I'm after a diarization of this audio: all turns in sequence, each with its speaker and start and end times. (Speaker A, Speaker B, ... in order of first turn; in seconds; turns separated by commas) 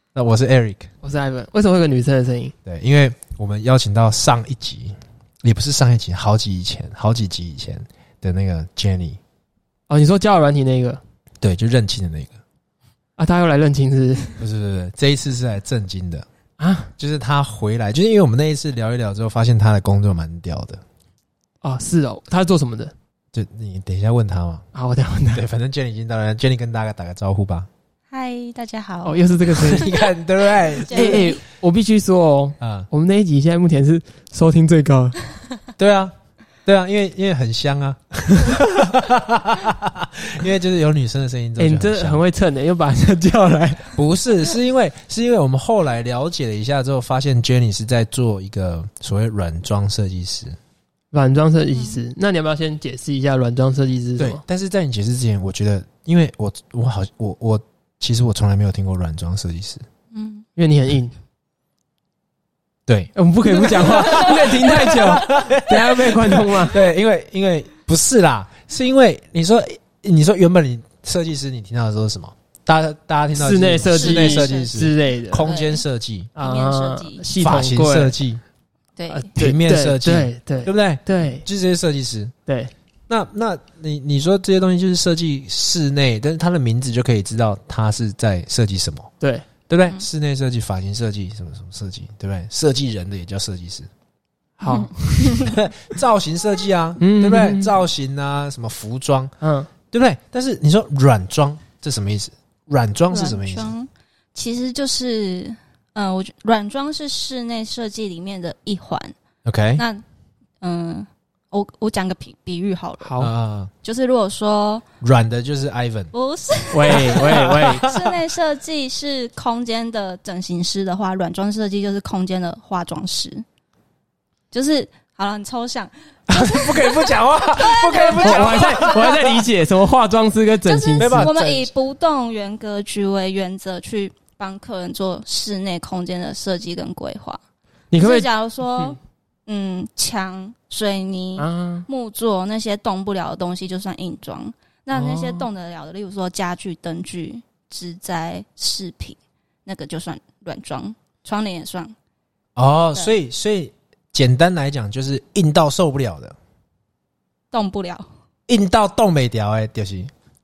Speaker A: 0.1-0.9, Speaker B: 1.0-2.5, Speaker A: 2.7-9.2, Speaker B: 9.9-11.0, Speaker A: 11.4-12.4, Speaker B: 13.2-14.4, Speaker A: 14.4-16.3, Speaker B: 16.6-16.9, Speaker A: 17.0-20.8, Speaker B: 21.6-22.9, Speaker A: 23.3-24.7, Speaker B: 24.7-25.5, Speaker A: 25.3-27.7, Speaker C: 28.1-31.4, Speaker B: 29.1-29.9, Speaker A: 29.6-31.3, Speaker B: 30.9-35.2, Speaker A: 32.6-32.9, Speaker A: 35.8-36.1, Speaker A: 36.6-42.2, Speaker B: 41.6-44.0, Speaker A: 44.0-50.6, Speaker B: 51.1-54.4, Speaker C: 51.7-52.0, Speaker A: 54.2-59.9, Speaker C: 60.1-60.5, Speaker B: 60.6-61.1, Speaker A: 62.9-76.3, Speaker B: 63.2-66.8, Speaker C: 64.0-64.3, Speaker B: 73.3-75.5, Speaker C: 73.9-74.8, Speaker C: 75.4-75.8, Speaker B: 76.4-78.2, Speaker C: 76.4-77.2, Speaker A: 77.4-78.4, Speaker C: 79.0-79.3, Speaker B: 79.1-81.5, Speaker A: 79.4-82.3, Speaker B: 82.5-82.7, Speaker A: 83.1-89.1, Speaker B: 89.2-89.5, Speaker A: 89.7-93.9, Speaker B: 94.6-95.5, Speaker C: 94.7-95.5, Speaker A: 95.4-99.3, Speaker B: 97.0-97.7, Speaker B: 99.4-99.7, Speaker A: 99.9-103.7, Speaker C: 103.1-109.2, Speaker A: 109.5-109.8, Speaker C: 109.8-110.0, Speaker C: 110.6-113.1, Speaker B: 113.0-113.3, Speaker A: 113.2-113.7, Speaker C: 113.8-114.8, Speaker A: 115.0-116.1, Speaker C: 116.1-123.5, Speaker B: 116.7-117.9, Speaker A: 116.9-118.2, Speaker C: 124.5-129.3, Speaker A: 126.3-129.4, Speaker B: 128.2-131.3, Speaker C: 130.7-137.4, Speaker A: 131.0-131.7, Speaker B: 137.9-139.0, Speaker C: 138.0-151.9, Speaker B: 141.4-141.9, Speaker B: 144.9-145.5, Speaker A: 152.6-156.4, Speaker C: 157.5-158.1, Speaker A: 158.5-160.1